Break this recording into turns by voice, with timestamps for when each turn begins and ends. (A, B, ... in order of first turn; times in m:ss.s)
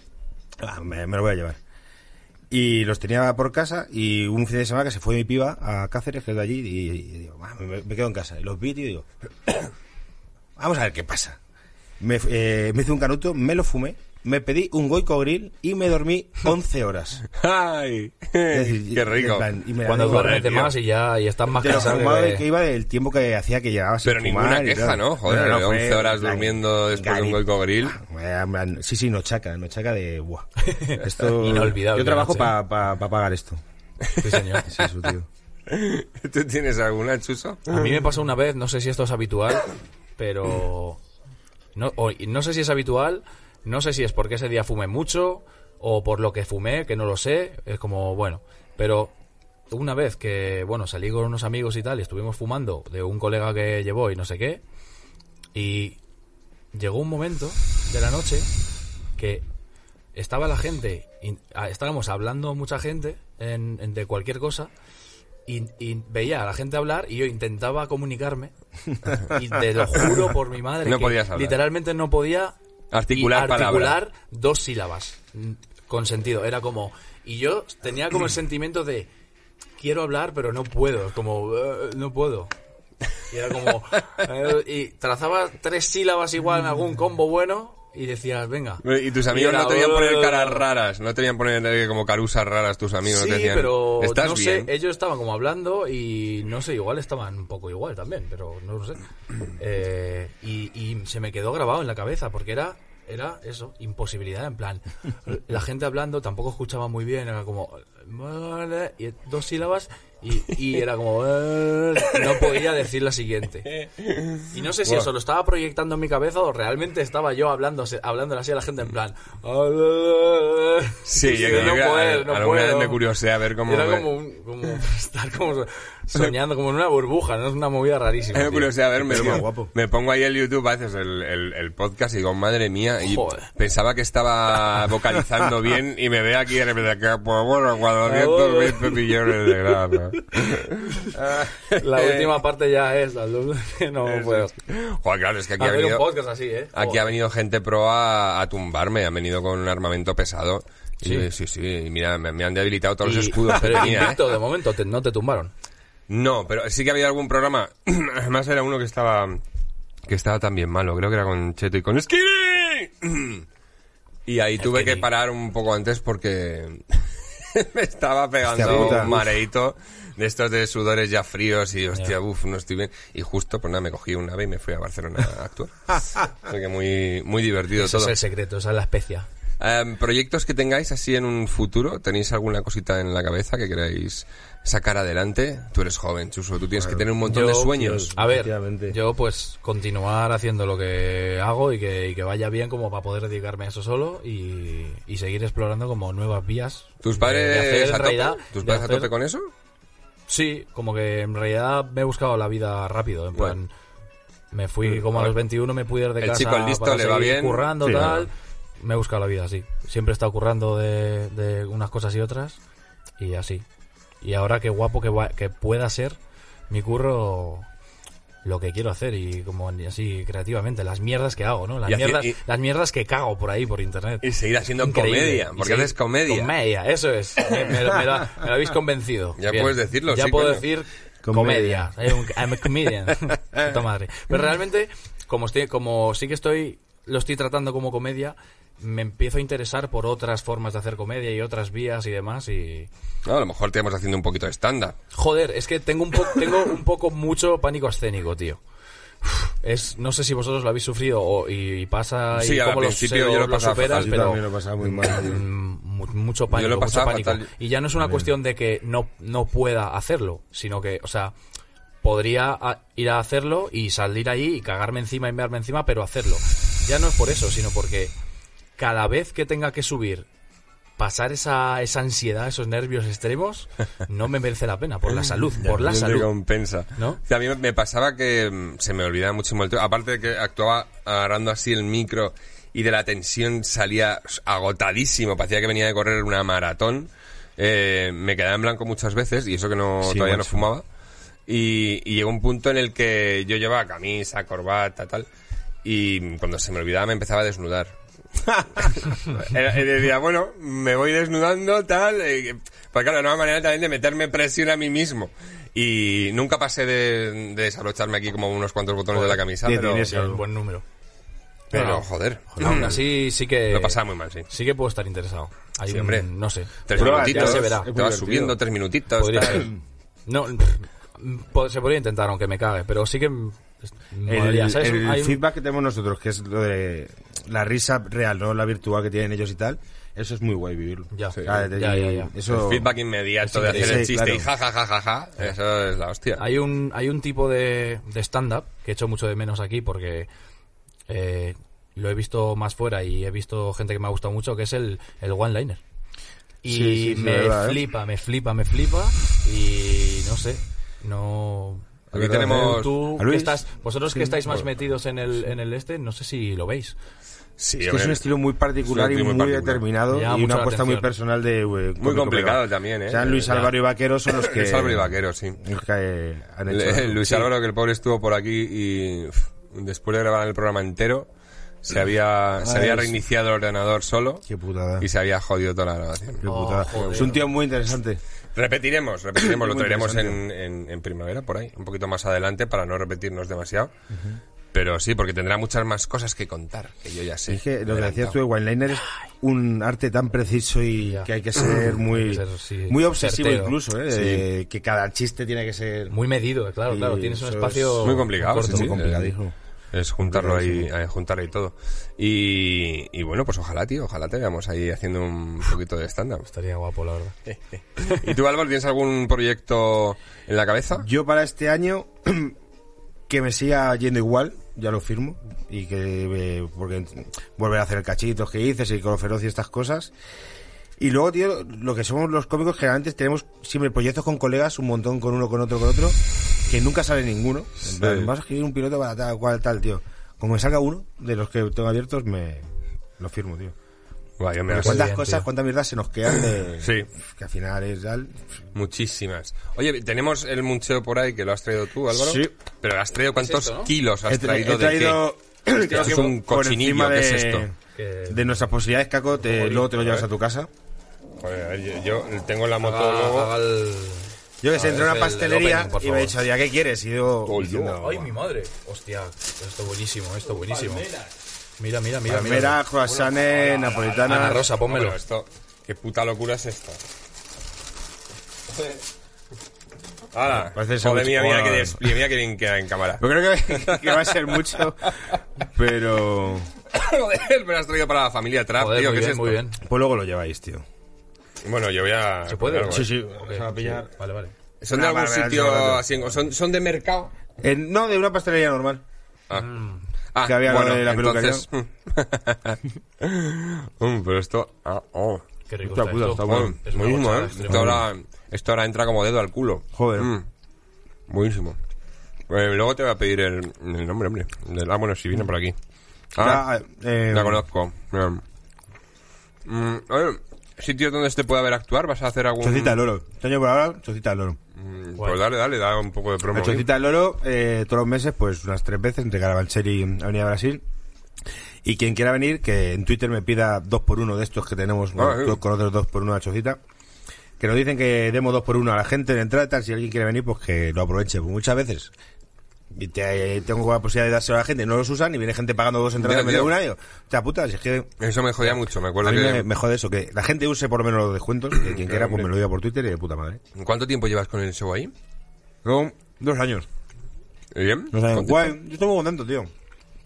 0:00.6-0:01.6 A
0:02.5-0:09.1 A
0:10.6-0:11.4 A
0:12.0-0:17.2 A
0:17.3-0:20.7 B
0:18.5-0:20.6 A
0:19.8-0:22.4 C
0:21.5-0:33.6 A
0:24.0-0:28.0 B
0:30.6-0:32.5 C
0:34.1-0:34.4 B
0:34.2-0:34.7 C
0:34.6-0:35.3 A
0:35.7-0:38.0 B
0:37.7-0:41.0 C
0:41.7-0:49.1 C
0:49.7-0:54.6 C
0:55.5-0:56.0 C
0:56.7-0:58.5 C
0:59.2-0:59.4 C
1:00.1-1:04.7 C
1:05.4-1:08.5 C
1:09.1-1:12.6 C
1:10.8-1:11.6 B
1:12.9-1:14.0 B
1:13.1-1:19.1 C
1:19.8-1:22.5 C
1:23.3-1:30.6 C
1:28.8-1:34.7 B
1:33.0-1:39.0 C
1:39.6-1:53.7 C
1:53.7-1:55.1 B
1:54.5-2:03.0 C
2:01.1-2:04.1 B
2:03.6-2:09.4 C
2:08.3-2:22.4 B
2:09.0-2:09.7 A
2:13.0-2:13.5 C
2:18.0-2:19.2 C
2:21.0-2:24.5 C
2:24.0-2:26.1 B
2:25.6-2:27.0 C
2:26.7-2:34.2 B
2:31.0-2:31.3 C
2:33.0-2:35.5 C
2:36.1-2:39.4 B
2:40.1-2:43.4 B
2:44.2-2:58.1 B
2:44.6-2:45.1 C
2:48.5-2:49.1 A
2:48.6-2:49.2 C
2:57.7-2:59.3 C
2:59.6-3:08.1 B
3:06.8-3:07.1 A
3:07.2-3:19.1 C
3:07.7-3:09.0 A
3:17.0-3:19.5 B
3:20.3-3:23.7 C
3:24.5-3:32.6 C
3:24.9-3:25.4 B
3:26.2-3:28.2 B
3:27.8-3:28.1 A
3:33.2-3:33.6 C
3:34.2-3:36.2 C
3:36.7-3:37.6 C
3:38.4-3:44.3 C
3:41.9-3:42.4 B
3:44.2-3:46.5 B
3:44.8-4:02.9 C
3:49.4-3:50.6 B
3:51.2-3:51.9 A
4:03.2-4:05.0 B
4:05.1-4:08.6 C
4:09.2-4:21.3 C
4:12.3-4:14.3 B
4:13.9-4:15.4 A
4:16.5-4:17.5 B
4:22.0-4:28.1 C
4:28.8-4:30.3 C
4:31.0-4:36.3 C
4:35.5-4:50.8 B
4:50.0-4:50.7 A
4:51.5-4:55.3 B
4:55.8-4:57.9 B
4:58.5-5:10.1 B
5:09.1-5:09.4 C
5:09.6-5:10.4 A
5:10.0-5:10.8 C
5:11.7-5:13.1 B
5:11.7-5:12.0 C
5:12.5-5:13.0 A
5:12.6-5:14.0 C
5:13.7-5:14.5 B
5:14.5-5:17.9 C
5:15.9-5:16.3 B
5:16.9-5:19.7 B
5:16.9-5:18.6 A
5:19.2-5:19.7 C
5:20.2-5:25.4 C
5:24.3-5:32.9 A
5:31.1-5:32.3 C
5:32.5-5:36.4 B
5:33.4-5:34.0 C
5:33.6-5:34.5 A
5:36.4-5:40.3 C
5:41.1-5:45.8 C
5:46.6-5:57.0 C
5:46.6-5:47.8 A
5:52.1-5:53.0 B
5:52.1-5:54.6 A
5:57.6-5:58.2 B
5:57.8-6:07.5 A
5:58.8-5:59.8 B
6:00.1-6:01.1 C
6:02.0-6:03.7 B
6:04.3-6:05.6 B
6:06.7-6:11.3 B
6:11.8-6:14.4 B
6:12.6-6:13.2 A
6:14.5-6:15.1 A
6:15.0-6:17.3 B
6:16.4-6:18.2 A
6:16.4-6:17.4 C
6:18.5-6:23.9 B
6:19.4-6:20.4 A
6:24.1-6:24.4 A
6:24.7-6:28.3 B
6:27.5-6:36.2 A
6:31.0-6:33.8 C
6:34.1-6:34.5 B
6:36.1-6:39.0 C
6:36.9-6:39.5 A
6:38.0-6:39.3 B
6:39.9-6:46.5 B
6:40.2-6:40.9 A
6:46.5-6:47.3 C
6:47.5-6:51.1 B
6:51.0-6:52.5 A
6:53.3-7:00.1 A
7:01.0-7:12.6 A
7:07.9-7:08.3 B
7:13.2-7:13.7 A
7:14.4-7:15.1 B
7:14.7-7:18.4 A
7:14.7-7:15.5 C
7:16.8-7:17.1 B
7:18.7-7:25.2 B
7:22.1-7:22.5 A
7:23.3-7:23.9 C
7:24.2-7:27.7 A
7:25.8-7:27.7 B
7:25.9-7:26.2 C
7:28.0-7:28.7 C
7:28.3-7:30.7 A
7:29.4-7:29.8 C
7:29.9-7:30.2 B
7:31.4-7:33.5 B
7:32.8-7:36.4 C
7:34.6-7:38.3 A
7:37.4-7:38.0 B
7:38.0-7:41.1 C
7:40.7-7:41.3 B
7:41.8-7:42.8 C
7:42.3-7:44.6 A
7:43.1-7:47.0 B
7:44.2-7:45.2 C
7:50.3-7:55.4 B
7:50.5-7:52.0 A
7:53.2-7:56.7 A
7:56.9-7:59.6 B
7:58.8-7:59.8 C
7:59.8-8:00.8 A
8:01.6-8:03.1 B
8:02.5-8:04.5 C
8:02.9-8:04.1 A
8:04.8-8:07.3 B
8:04.9-8:06.0 A
8:07.6-8:09.0 A
8:09.5-8:10.0 C
8:10.3-8:15.4 B
8:10.4-8:11.7 A
8:15.7-8:18.0 C
8:15.8-8:16.8 A
8:16.4-8:20.4 B
8:17.7-8:18.0 A
8:19.9-8:20.3 A
8:21.3-8:21.8 B
8:22.5-8:25.8 B
8:26.3-8:26.7 B
8:26.4-8:27.6 A
8:27.3-8:28.4 B
8:29.6-8:33.0 B
8:32.6-8:34.6 A
8:34.8-8:36.9 B
8:36.5-8:40.8 A
8:41.8-8:46.8 A
8:45.2-8:45.6 B
8:47.6-8:52.1 A
8:52.9-8:58.1 A
8:56.2-8:56.7 B
8:58.2-8:59.7 B
8:59.2-9:03.6 A
9:01.9-9:02.5 B
9:03.8-9:05.1 B
9:05.8-9:06.9 A
9:07.7-9:08.7 B
9:08.1-9:09.7 A